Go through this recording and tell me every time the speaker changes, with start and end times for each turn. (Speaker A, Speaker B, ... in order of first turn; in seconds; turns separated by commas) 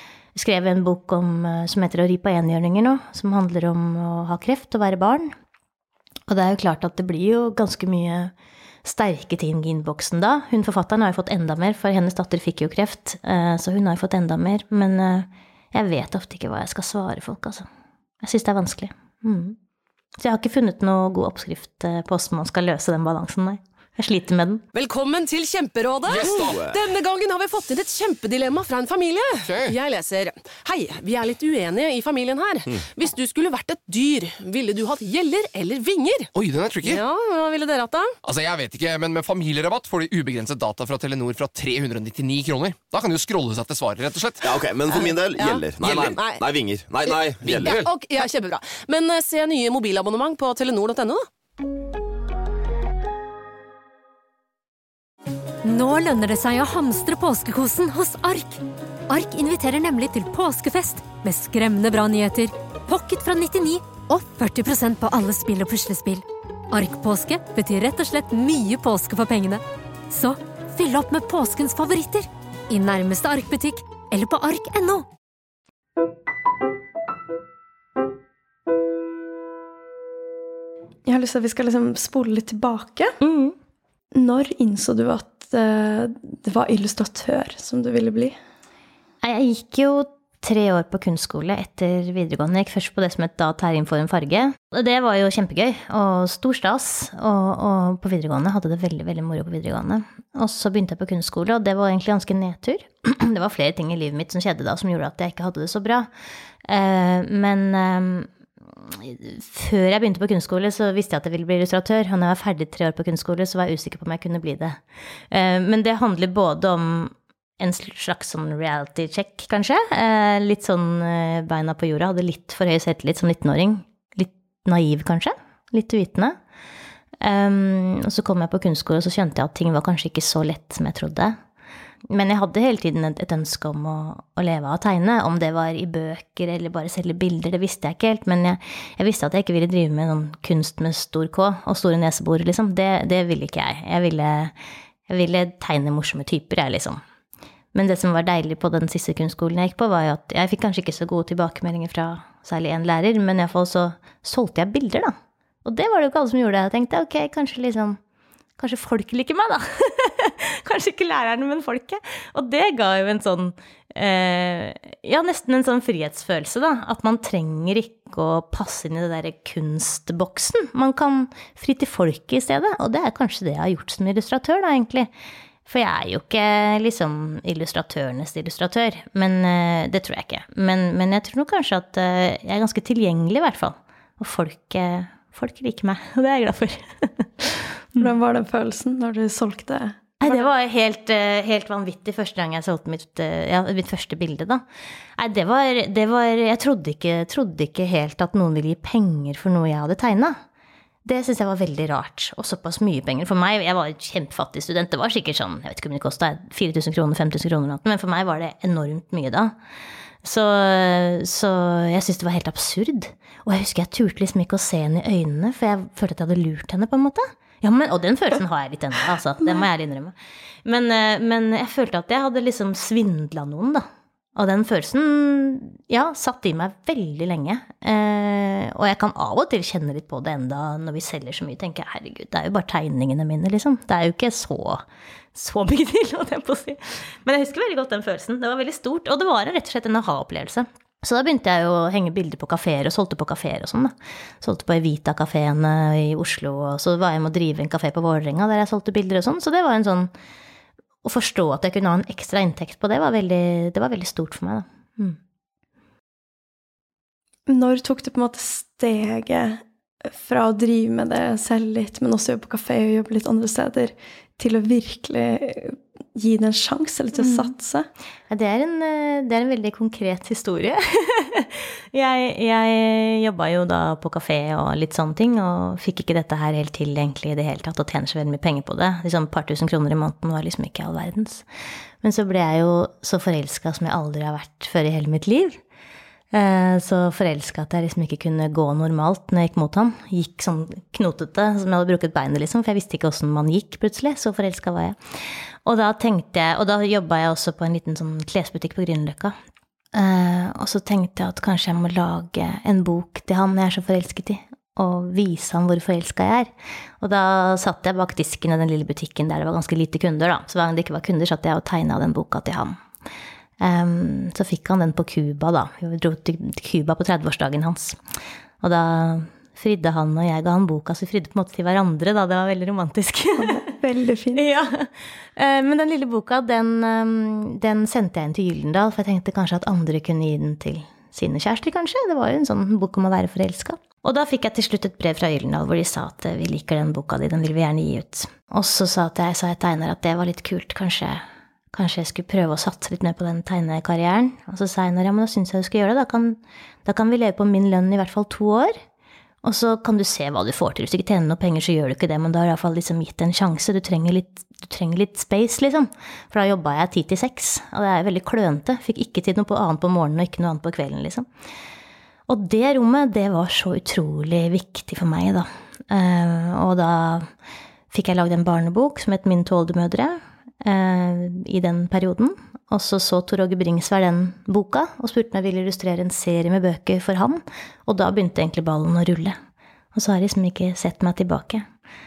Speaker A: 0.3-5.3, Speaker A: 6.3-8.3, Speaker A: 8.8-17.7, Speaker A: 18.2-19.6, Speaker A: 20.2-24.6, Speaker B: 24.7-36.3, Speaker C: 26.1-26.7, Speaker D: 26.2-26.8, Speaker C: 29.4-29.8, Speaker C: 36.4-37.0, Speaker B: 36.8-38.1, Speaker C: 38.2-44.6, Speaker D: 44.4-47.8, Speaker B: 44.9-46.4, Speaker C: 45.8-46.1, Speaker B: 47.0-51.3, Speaker C: 47.4-47.9, Speaker E: 55.6-75.1, Speaker F: 81.1-83.2, Speaker A: 83.2-83.6, Speaker F: 84.1-88.4, Speaker A: 89.2-106.1, Speaker A: 106.7-114.8, Speaker A: 115.3-126.4, Speaker A: 127.2-131.4, Speaker A: 132.1-144.5, Speaker A: 145.1-147.0, Speaker A: 147.7-158.0, Speaker A: 158.6-175.1, Speaker A: 175.7-188.1, Speaker F: 188.0-190.5, Speaker A: 190.2-194.6, Speaker A: 195.2-200.4, Speaker A: 201.1-209.5, Speaker A: 210.2-220.1, Speaker A: 220.6-234.8, Speaker A: 235.3-250.1, Speaker A: 251.0-255.2, Speaker F: 257.5-267.9, Speaker A: 267.2-267.5, Speaker A: 268.3-281.4, Speaker A: 282.0-285.6, Speaker A: 286.3-295.0, Speaker A: 295.6-299.4, Speaker A: 299.9-312.8, Speaker A: 313.6-318.0, Speaker A: 318.6-323.6, Speaker F: 323.4-324.4, Speaker A: 324.4-348.7, Speaker A: 349.4-361.3, Speaker A: 362.3-367.3, Speaker A: 367.9-379.4, Speaker A: 379.9-381.7